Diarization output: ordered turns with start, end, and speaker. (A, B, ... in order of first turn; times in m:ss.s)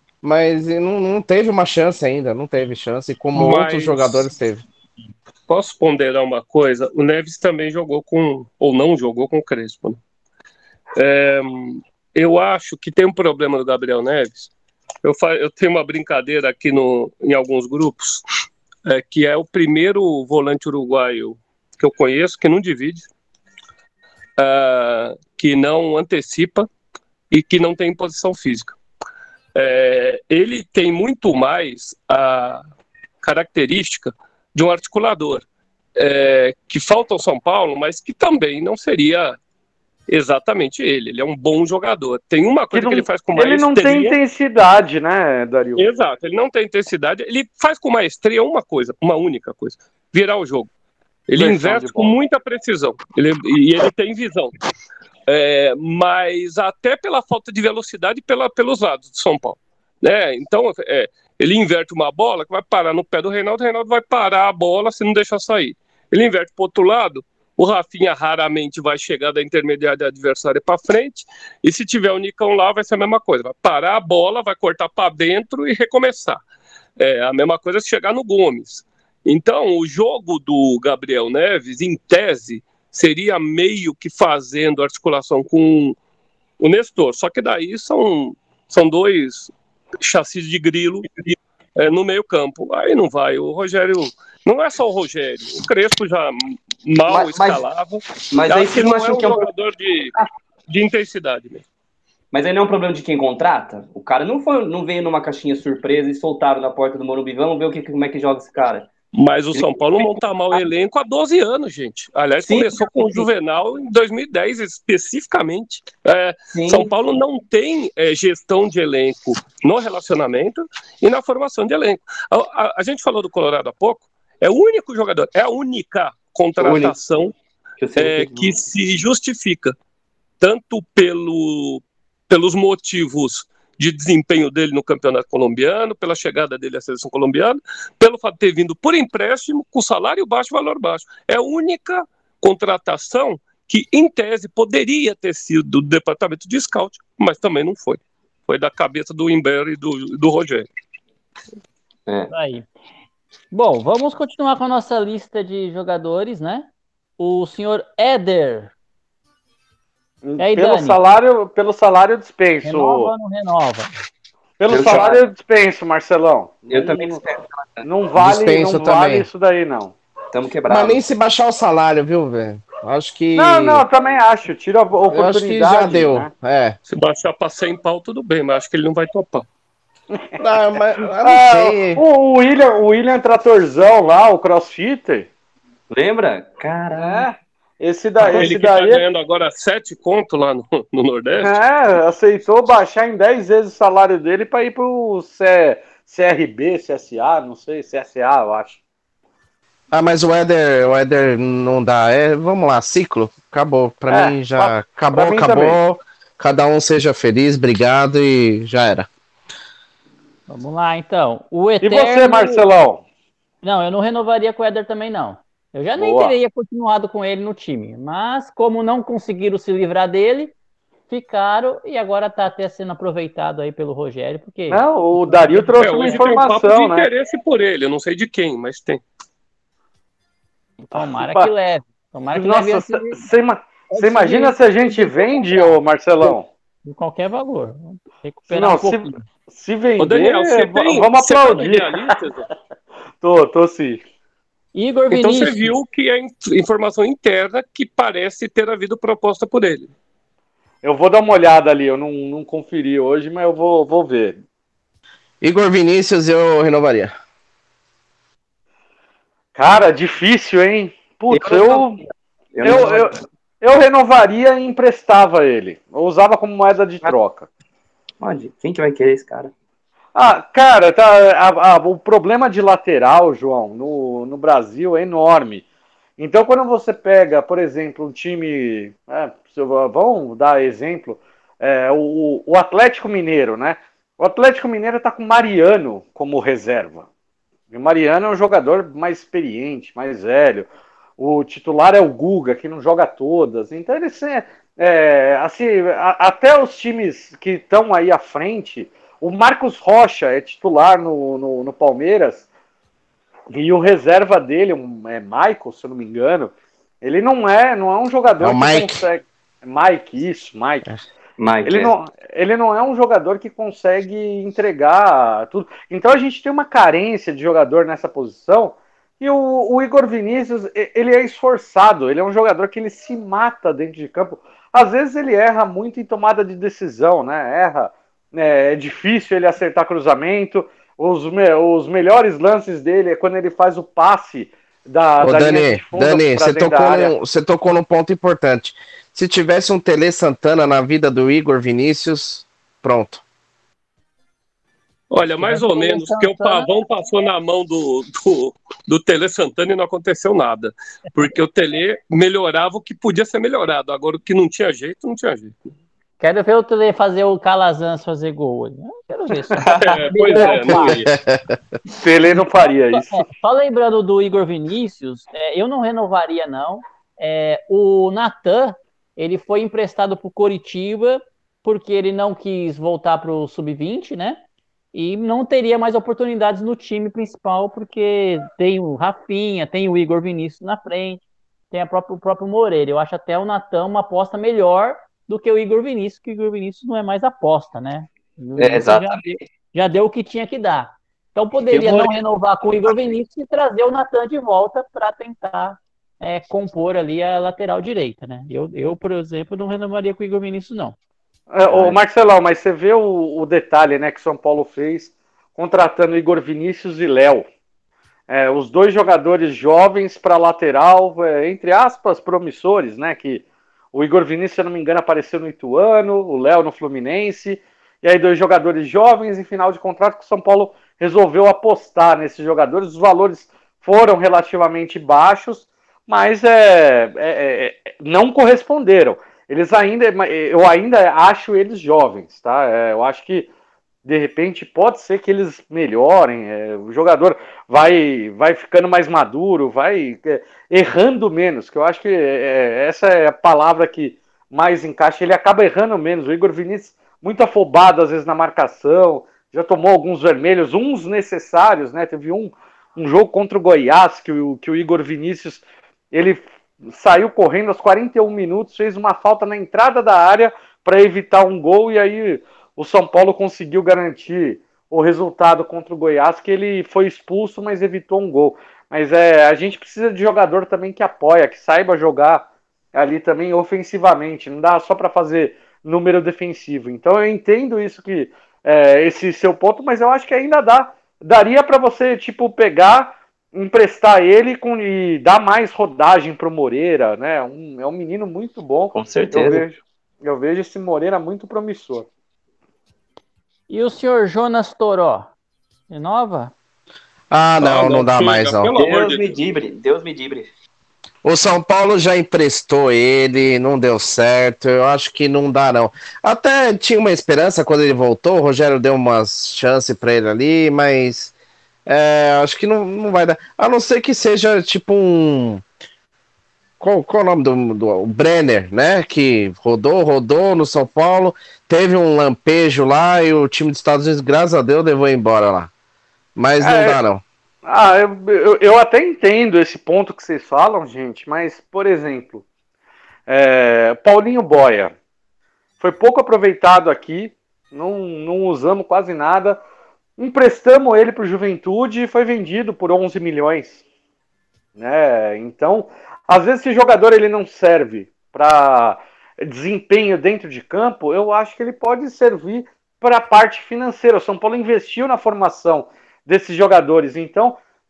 0:00.2-0:04.6 A
0:03.3-0:04.2 B
0:05.5-0:10.0 B
0:11.0-0:14.5 B
0:15.0-0:18.2 B
0:18.8-0:23.1 B
0:24.4-0:26.7 B
0:27.3-0:28.8 B
0:29.5-0:32.6 B
0:33.2-0:35.4 B
0:36.0-0:39.4 B
0:40.1-0:44.2 B
0:42.7-0:45.8 C
0:45.8-0:50.7 B
0:51.3-0:54.5 B
0:51.4-0:52.1 C
0:55.3-1:16.4 B
1:17.0-1:26.0 B
1:26.6-1:40.1 B
1:37.1-1:37.6 D
1:38.3-1:39.5 D
1:40.7-1:41.6 B
1:42.3-1:48.9 D
1:49.1-2:07.3 B
1:52.5-1:53.3 D
1:56.5-1:56.9 D
2:06.6-2:06.9 D
2:07.8-2:08.6 D
2:08.0-2:09.7 B
2:10.4-2:30.7 B
2:32.1-2:32.3 D
2:32.3-2:32.7 E
2:33.5-2:38.7 E
2:40.2-2:43.1 C
2:40.4-2:41.0 E
2:42.6-2:43.9 E
2:44.6-2:47.2 C
2:44.7-2:45.2 D
2:46.6-2:47.8 D
2:47.8-2:50.0 C
2:48.2-2:49.2 A
2:50.3-2:51.0 D
2:50.7-2:53.8 A
2:53.3-2:56.3 C
2:55.1-2:56.8 A
2:56.9-2:59.4 B
3:00.4-3:02.0 A
3:01.2-3:05.3 C
3:05.9-3:07.3 D
3:06.9-3:09.0 C
3:08.2-3:11.6 B
3:11.4-3:18.8 C
3:19.9-3:29.1 A
3:24.1-3:25.8 C
3:30.5-3:32.6 E
3:31.8-3:33.0 C
3:33.6-3:40.5 E
3:36.0-3:36.3 C
3:41.1-3:46.2 E
3:44.7-3:47.1 C
3:45.8-3:49.0 B
3:50.8-3:53.3 E
3:51.0-3:51.5 C
3:52.3-3:56.5 C
3:53.9-3:59.2 E
3:58.5-4:02.1 C
4:00.0-4:02.5 B
4:03.2-4:04.0 C
4:04.7-4:05.7 E
4:05.1-4:09.9 B
4:10.8-4:14.4 C
4:15.4-4:17.1 A
4:19.5-4:22.0 C
4:21.3-4:23.2 D
4:22.6-4:27.5 C
4:28.2-4:29.5 D
4:30.1-4:35.6 C
4:36.2-4:47.0 C
4:47.7-5:02.5 C
5:03.5-5:10.8 C
5:08.4-5:09.0 A
5:11.4-5:11.9 D
5:11.6-5:37.1 C
5:35.2-5:43.2 A
5:45.1-5:55.6 B
5:45.4-5:46.7 E
5:56.2-6:01.0 E
5:59.6-6:00.0 D
5:59.8-6:01.1 B
6:02.0-6:03.2 C
6:02.9-6:14.4 E
6:14.9-6:41.0 E
6:28.6-6:29.4 D
6:31.7-6:32.2 D
6:41.5-6:47.5 C
6:41.7-6:42.0 D
6:48.3-7:13.5 C
7:14.0-8:12.1 C
8:08.9-8:09.7 D
8:13.7-8:15.3 E
8:15.9-8:16.5 E
8:17.3-8:18.7 A
8:17.6-8:19.4 B
8:18.7-8:20.5 D
8:21.2-8:31.3 A
8:31.8-8:35.6 A
8:36.8-8:45.7 A
8:46.4-8:47.2 A
8:46.6-8:47.0 C
8:47.6-8:52.4 C
8:53.3-8:54.9 C
8:55.8-8:59.6 C
9:00.2-9:03.8 C
9:04.8-9:17.6 C